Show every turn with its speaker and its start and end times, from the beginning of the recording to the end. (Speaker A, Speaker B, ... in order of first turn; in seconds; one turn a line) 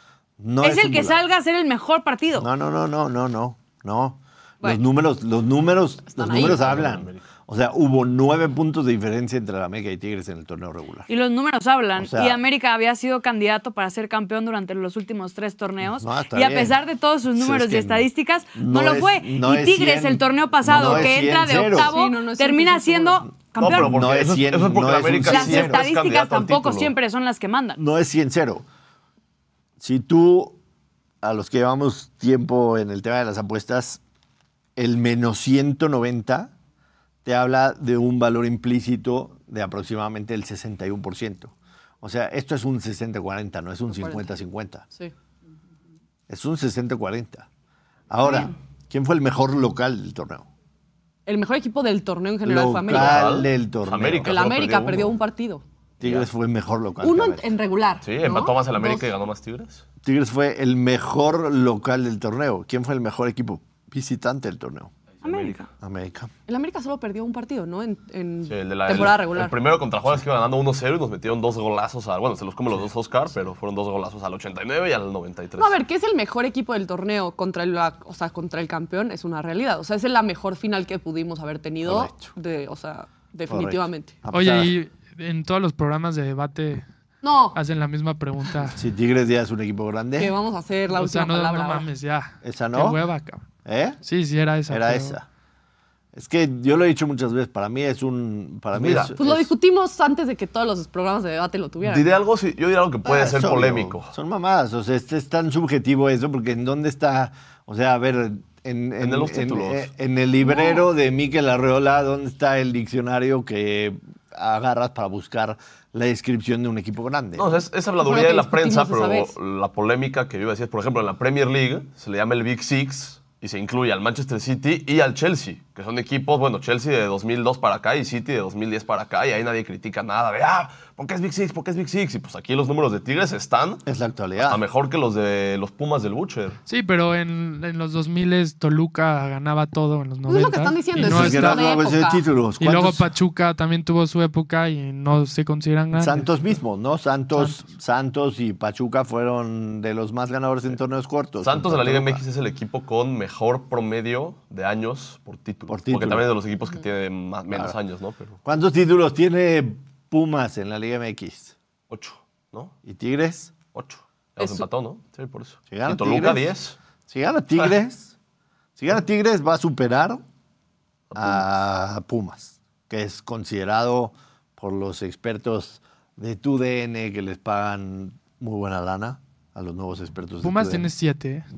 Speaker A: 0.4-1.2
Speaker B: 0.6-2.5
Speaker A: 2.4-11.1
Speaker C: 6.2-6.6
Speaker D: 6.2-7.2
Speaker B: 11.1-23.9
Speaker A: 12.0-12.4
Speaker A: 15.8-16.8
Speaker A: 17.3-22.0
Speaker C: 20.8-21.1
Speaker C: 21.8-23.3
Speaker D: 23.6-26.9
Speaker A: 23.6-25.9
Speaker B: 25.3-27.8
Speaker A: 27.8-28.6
Speaker A: 29.8-30.6
Speaker A: 31.2-34.0
Speaker A: 34.8-36.5
Speaker A: 37.2-44.9
Speaker C: 43.9-44.3
Speaker A: 46.3-47.5
Speaker A: 48.1-50.5
Speaker C: 51.3-53.3
Speaker A: 52.4-54.4
Speaker D: 52.9-55.2
Speaker C: 54.2-55.6
Speaker A: 56.0-57.5
Speaker D: 56.0-56.3
Speaker C: 57.0-59.1
Speaker D: 58.0-59.8
Speaker A: 60.0-64.9
Speaker D: 65.2-65.6
Speaker B: 65.2-65.7
Speaker A: 65.8-66.3
Speaker C: 66.5-69.5
Speaker D: 68.5-75.8
Speaker C: 75.6-84.2
Speaker A: 81.8-82.3
Speaker A: 83.5-84.7
Speaker E: 84.3-86.9
Speaker C: 87.2-87.6
Speaker E: 87.5-88.8
Speaker A: 88.7-90.3
Speaker C: 90.2-91.9
Speaker E: 90.9-93.4
Speaker A: 92.4-93.0
Speaker A: 93.7-94.0
Speaker E: 94.0-95.2
Speaker A: 94.7-95.3
Speaker A: 96.1-99.5
Speaker D: 98.7-99.2
Speaker C: 99.2-102.1
Speaker D: 101.8-104.1
Speaker A: 103.0-117.5
Speaker D: 109.0-109.9
Speaker C: 110.5-110.8
Speaker D: 117.4-133.8
Speaker C: 118.0-119.3
Speaker A: 133.8-134.6
Speaker D: 134.4-136.6
Speaker E: 136.7-141.8
Speaker C: 140.3-142.2
Speaker A: 141.0-143.1
Speaker E: 142.6-146.3
Speaker A: 145.9-152.2
Speaker D: 151.4-158.4
Speaker A: 155.7-156.3
Speaker A: 157.5-157.8
Speaker A: 158.4-161.6
Speaker D: 161.9-162.8
Speaker A: 162.8-163.5
Speaker D: 163.7-166.8
Speaker C: 164.4-164.7
Speaker A: 165.7-166.5
Speaker A: 167.1-168.2
Speaker A: 168.8-170.2
Speaker D: 171.1-171.4
Speaker A: 171.2-180.9
Speaker E: 180.4-181.5